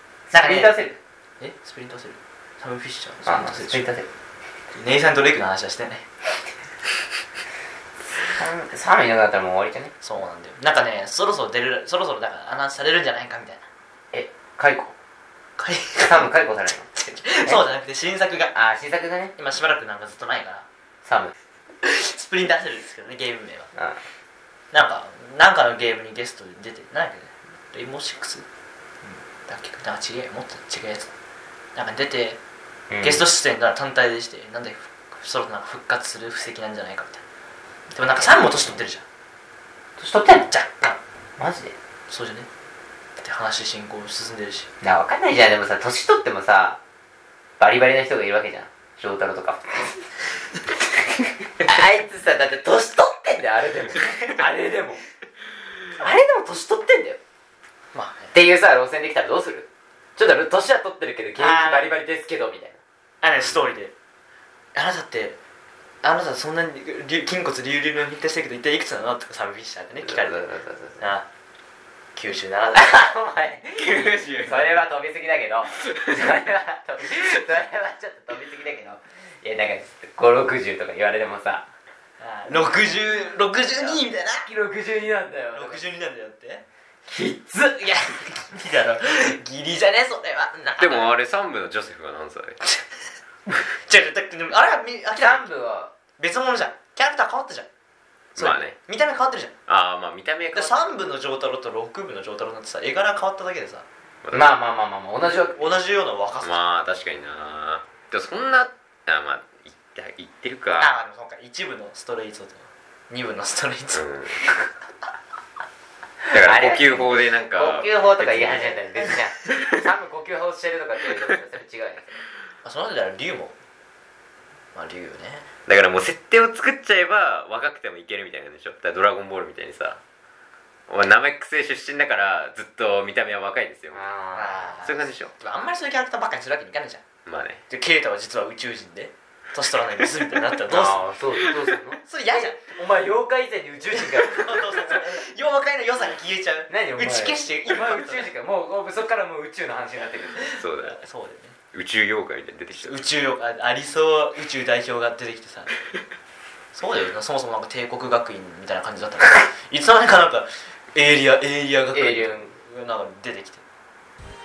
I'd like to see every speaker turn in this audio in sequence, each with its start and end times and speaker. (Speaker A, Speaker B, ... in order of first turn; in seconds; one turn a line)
Speaker A: 0.3-1.0
Speaker B: 0.3-0.8
Speaker B: 1.4-3.9
Speaker A: 3.2-4.1
Speaker B: 4.7-6.1
Speaker A: 8.2-9.9
Speaker B: 10.0-13.7
Speaker A: 14.1-14.9
Speaker B: 15.6-16.3
Speaker A: 16.0-16.9
Speaker B: 16.9-18.5
Speaker A: 18.5-19.3
Speaker B: 19.4-20.6
Speaker A: 21.0-21.4
Speaker B: 21.8-23.7
Speaker A: 23.8-24.0
Speaker B: 24.7-28.4
Speaker B: 29.0-31.1
Speaker B: 31.8-32.4
Speaker A: 32.9-33.2
Speaker B: 33.0-37.2
Speaker B: 37.9-39.0
Speaker A: 38.0-38.8
Speaker A: 40.0-40.5
Speaker B: 40.5-41.0
Speaker A: 41.4-41.8
Speaker B: 42.1-42.5
Speaker B: 43.2-44.7
Speaker A: 44.8-46.8
Speaker A: 47.6-50.1
Speaker A: 51.6-55.0
Speaker A: 56.0-57.2
Speaker B: 57.9-58.4
Speaker A: 58.3-62.8
Speaker B: 61.4-62.0
Speaker B: 63.2-63.9
Speaker B: 64.7-65.4
Speaker B: 66.0-70.4
Speaker A: 70.0-71.0
Speaker B: 71.0-71.3
Speaker B: 72.2-73.1
Speaker A: 72.8-81.7
Speaker C: 73.8-74.8
Speaker B: 82.2-84.5
Speaker A: 83.7-85.8
Speaker B: 85.5-86.6
Speaker A: 87.1-88.2
Speaker B: 87.8-91.1
Speaker C: 90.8-92.6
Speaker B: 93.7-95.5
Speaker A: 95.2-95.9
Speaker B: 96.2-97.7
Speaker B: 98.3-99.5
Speaker C: 98.4-98.8
Speaker C: 99.7-101.0
Speaker B: 100.5-103.8
Speaker C: 104.2-104.5
Speaker A: 104.3-105.5
Speaker B: 105.2-106.6
Speaker C: 106.4-110.9
Speaker B: 110.8-114.8
Speaker C: 113.9-114.4
Speaker A: 116.2-122.2
Speaker C: 116.3-118.8
Speaker B: 122.6-123.5
Speaker B: 124.8-125.5
Speaker C: 125.7-130.0
Speaker C: 130.9-134.1
Speaker A: 133.9-134.8
Speaker B: 134.3-137.0
Speaker C: 134.8-135.3
Speaker C: 137.3-137.6
Speaker B: 137.7-141.5
Speaker A: 140.7-145.2
Speaker B: 142.0-142.8
Speaker B: 143.9-148.3
Speaker A: 146.7-150.5
Speaker B: 150.4-151.6
Speaker C: 150.6-151.0
Speaker C: 151.7-153.1
Speaker B: 152.7-155.7
Speaker B: 156.7-163.6
Speaker A: 161.9-162.6